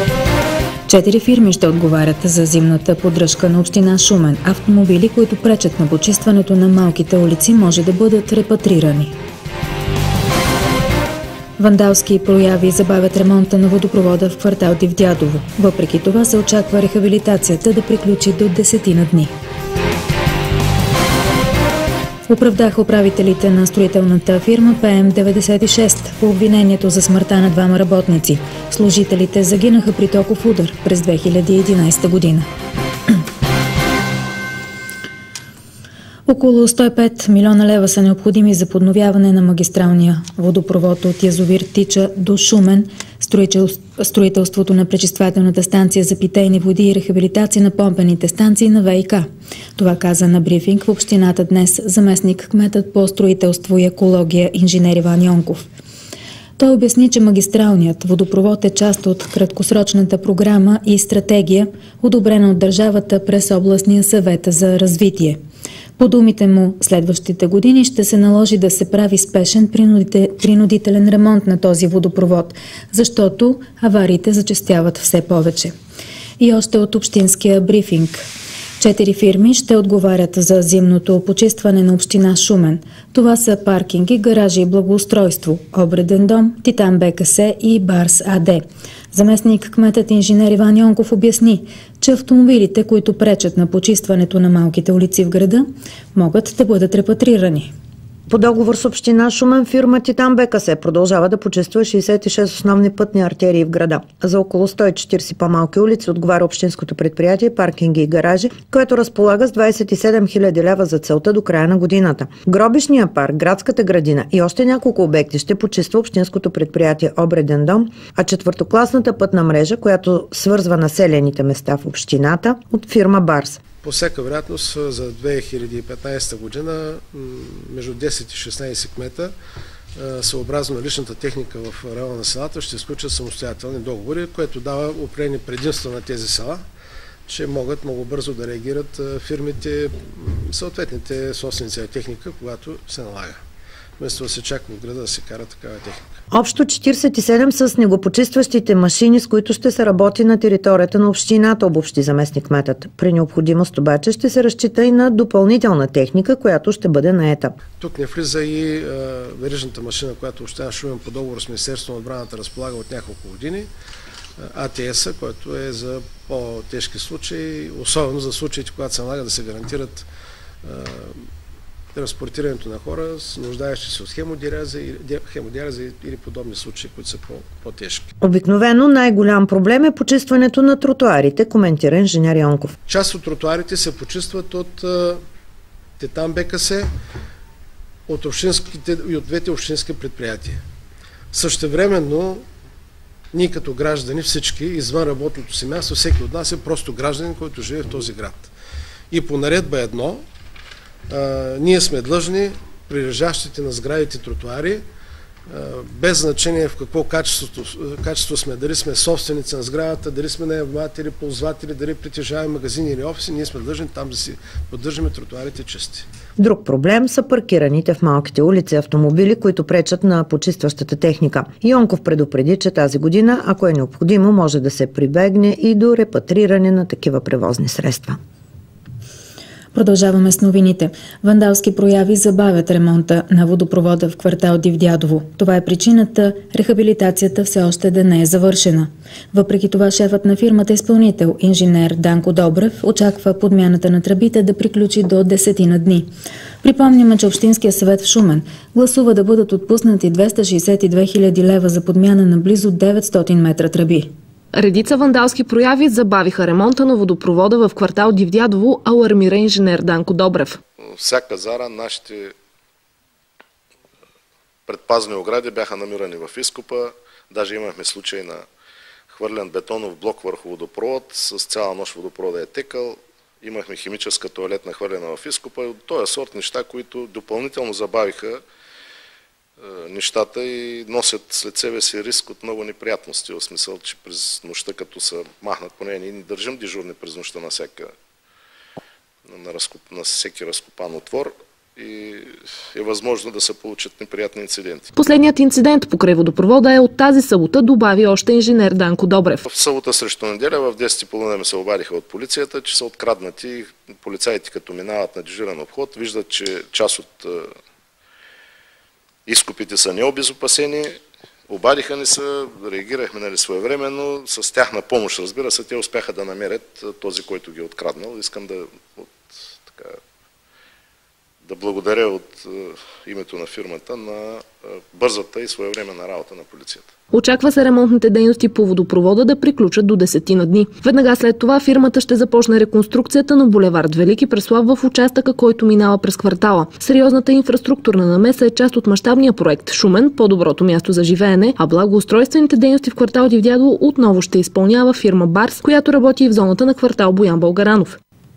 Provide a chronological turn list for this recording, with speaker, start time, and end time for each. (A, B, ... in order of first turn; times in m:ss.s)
0:00.9-0:09.2 A
0:11.6-0:19.3 A
0:22.3-0:32.5 A
0:36.3-0:55.7 A
0:56.6-1:05.4 A
1:06.0-1:15.7 A
1:16.4-1:18.2 A
1:18.8-1:37.7 A
1:38.3-2:03.6 B
2:03.8-2:09.3 C
2:10.0-2:16.6 C
2:17.3-2:23.4 C
2:24.0-2:26.0 C
2:26.3-2:37.6 B
2:37.8-2:43.7 C
2:44.4-2:50.1 C
2:50.6-2:51.2 C
2:51.9-2:58.1 C
2:58.2-3:02.8 B
3:02.9-3:05.2 C
3:06.0-3:06.9 C
3:08.1-3:10.6 C
3:11.3-3:12.5 C
3:13.3-3:18.5 C
3:19.1-3:20.2 C
3:21.1-3:24.8 C
3:25.5-3:36.1 C
3:36.4-3:48.2 B
3:49.7-4:06.1 A
4:06.6-4:14.1 A
4:14.6-4:20.6 D
4:20.8-4:22.3 E
4:24.7-4:28.5 E
4:29.1-4:38.4 E
4:39.6-4:47.9 E
4:49.3-4:54.9 E
4:55.0-4:59.4 D
4:59.5-5:07.5 E
5:09.3-5:20.0 E
5:21.5-5:26.9 E
5:27.1-5:48.0 D